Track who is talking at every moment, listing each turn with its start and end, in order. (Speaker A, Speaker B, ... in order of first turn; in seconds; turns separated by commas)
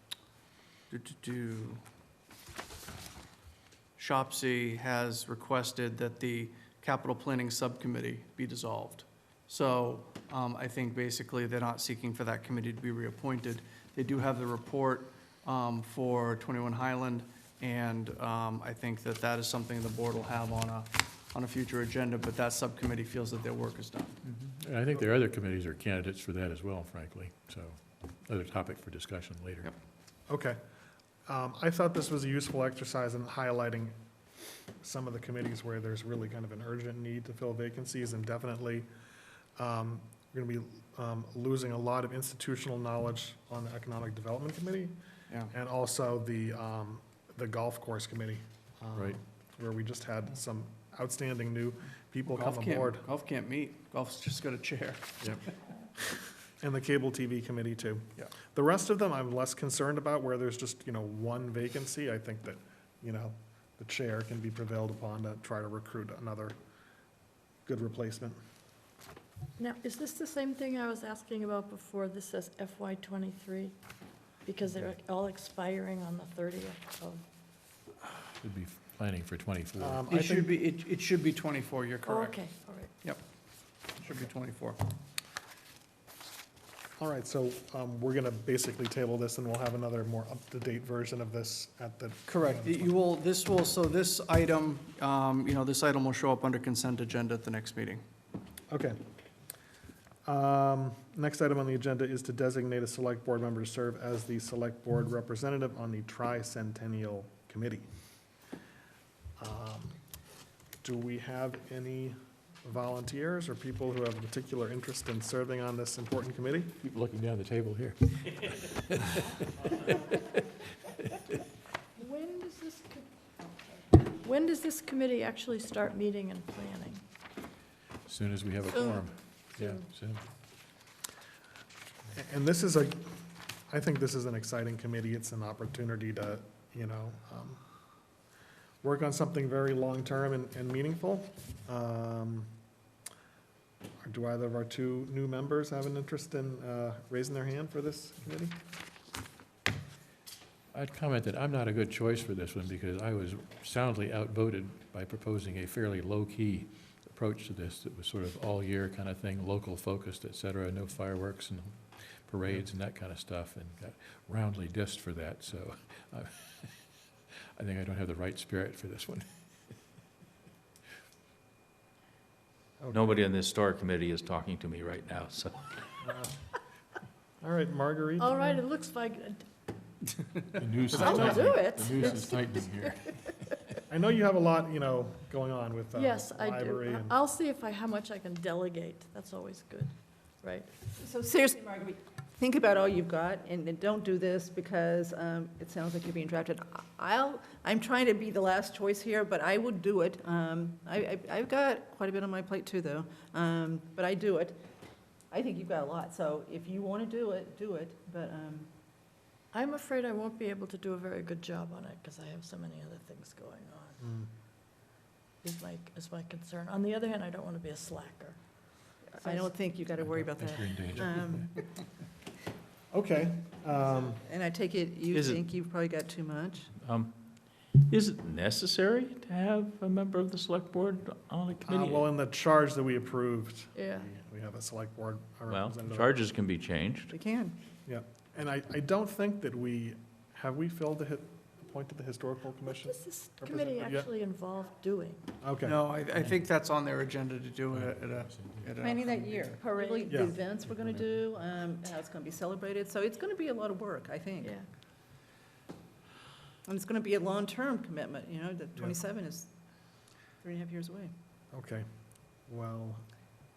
Speaker A: 0.9-1.8, Speaker A: 4.0-24.2, Speaker B: 24.4-29.7, Speaker C: 30.3-30.6, Speaker C: 31.3-33.9, Speaker C: 34.8-38.9, Speaker C: 39.6-45.0, Speaker C: 45.5-53.1, Speaker A: 52.3-55.4, Speaker C: 56.6-66.6, Speaker C: 67.7-68.4, Speaker D: 69.6-73.8, Speaker D: 74.5-77.2, Speaker B: 78.4-80.0, Speaker C: 79.8-80.6, Speaker A: 80.1-82.5, Speaker D: 82.1-83.0, Speaker A: 84.0-84.8, Speaker C: 87.0-93.0, Speaker A: 92.3-98.0, Speaker C: 98.7-99.0, Speaker C: 100.2-107.9, Speaker C: 109.4-110.0, Speaker C: 110.8-116.8, Speaker B: 116.8-119.8, Speaker E: 122.0-123.0, Speaker D: 124.2-127.0, Speaker B: 128.1-130.2, Speaker C: 132.2-137.6, Speaker C: 138.8-142.5, Speaker C: 144.0-148.6, Speaker B: 150.7-166.8, Speaker B: 167.6-169.2, Speaker C: 172.8-173.2, Speaker F: 172.9-175.6, Speaker C: 176.0-176.3, Speaker C: 177.4-178.6, Speaker D: 178.2-179.4, Speaker B: 180.6-183.1, Speaker E: 180.9-182.3, Speaker D: 181.0-182.6, Speaker C: 181.1-181.5, Speaker C: 183.9-187.2, Speaker D: 185.9-190.7, Speaker E: 191.0-204.6, Speaker E: 205.3-208.7, Speaker D: 209.5-214.0, Speaker C: 214.0-214.3, Speaker D: 215.4-218.4, Speaker E: 219.2-221.5, Speaker D: 219.2-219.5, Speaker B: 220.0-221.4, Speaker C: 222.9-224.2, Speaker E: 224.1-226.7, Speaker F: 225.1-225.4, Speaker F: 226.8-227.2, Speaker F: 227.8-232.1, Speaker C: 231.7-236.2, Speaker D: 233.8-234.1, Speaker F: 235.5-237.1, Speaker E: 237.1-237.6, Speaker C: 237.9-244.1, Speaker D: 242.8-245.2, Speaker C: 245.4-245.8, Speaker A: 245.6-249.6, Speaker B: 247.7-249.1, Speaker E: 248.8-254.6, Speaker D: 249.7-250.1, Speaker C: 250.1-250.4, Speaker B: 250.7-251.2, Speaker E: 256.7-259.5, Speaker E: 260.4-261.1, Speaker C: 261.5-261.9, Speaker C: 262.5-263.1